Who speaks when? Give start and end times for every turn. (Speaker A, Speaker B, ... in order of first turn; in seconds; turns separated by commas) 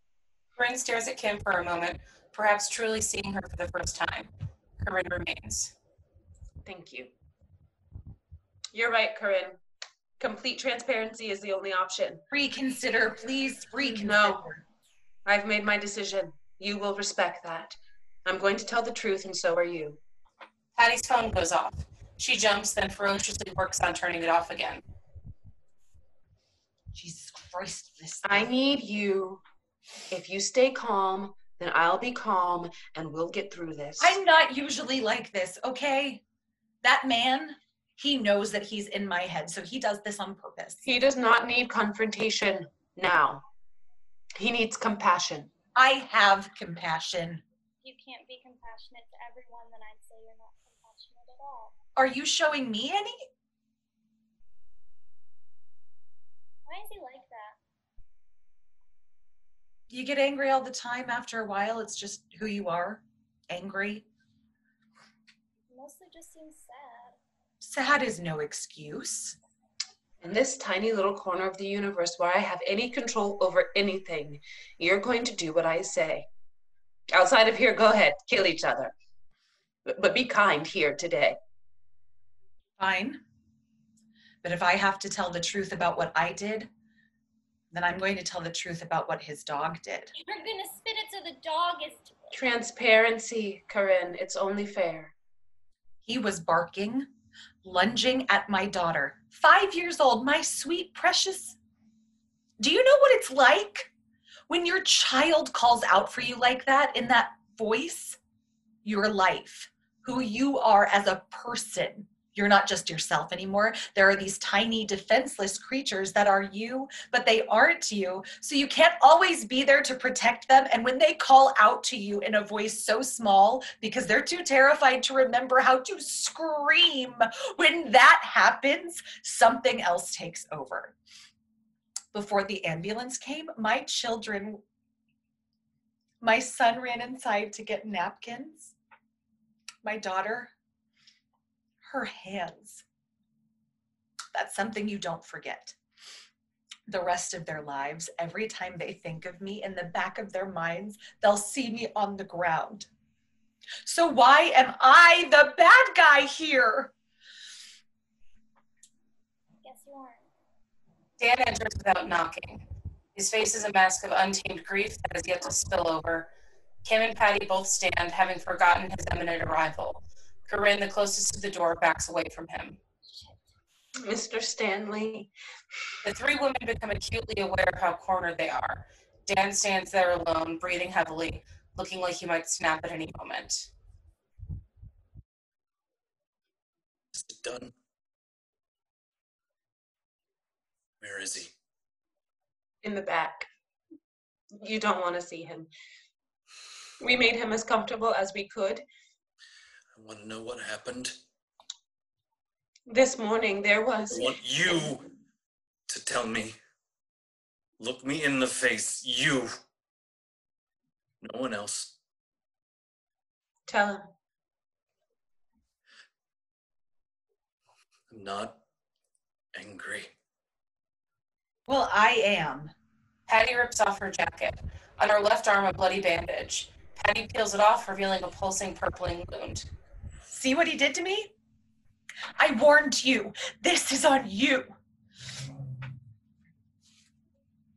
Speaker A: 0.6-5.7, Speaker B: 6.6-7.1, Speaker B: 8.7-9.6, Speaker B: 10.2-12.2, Speaker C: 12.3-14.6, Speaker B: 13.8-14.4, Speaker B: 15.2-20.0, Speaker A: 20.7-24.8, Speaker C: 26.9-28.5, Speaker B: 28.2-29.4, Speaker B: 30.1-34.1, Speaker C: 34.0-36.2, Speaker C: 36.8-40.8, Speaker B: 40.8-43.4, Speaker B: 44.4-45.5, Speaker C: 45.7-47.4, Speaker D: 47.8-51.8, Speaker C: 52.0-53.1, Speaker D: 56.7-57.5, Speaker C: 59.9-64.0, Speaker D: 65.7-67.2, Speaker C: 67.6-69.3, Speaker B: 70.2-76.3, Speaker B: 77.1-78.9, Speaker B: 79.9-81.4, Speaker C: 82.8-83.2, Speaker C: 84.4-86.7, Speaker C: 87.7-90.1, Speaker D: 90.2-92.4, Speaker B: 92.3-95.1, Speaker C: 96.0-97.1, Speaker C: 97.6-101.5, Speaker C: 102.6-103.9, Speaker C: 104.5-108.2, Speaker C: 108.8-130.9, Speaker C: 132.1-134.6, Speaker C: 136.2-138.7, Speaker C: 139.8-140.5, Speaker C: 141.8-142.8, Speaker C: 144.3-145.8, Speaker C: 146.9-152.9, Speaker C: 153.8-156.9, Speaker D: 159.6-160.2, Speaker A: 161.2-166.3, Speaker A: 166.8-172.8, Speaker B: 174.0-175.3, Speaker A: 176.0-183.7, Speaker E: 187.1-187.7, Speaker E: 191.0-191.5, Speaker B: 192.8-193.5, Speaker B: 194.5-195.7, Speaker B: 197.0-198.8, Speaker E: 199.9-201.1, Speaker B: 202.9-204.3, Speaker E: 204.2-205.0, Speaker E: 205.9-206.6, Speaker E: 207.8-209.5, Speaker E: 211.2-211.9, Speaker B: 213.7-214.1, Speaker E: 218.1-218.6, Speaker E: 219.5-220.1, Speaker C: 221.7-222.7, Speaker A: 223.3-229.7, Speaker C: 230.3-231.3, Speaker C: 232.4-234.7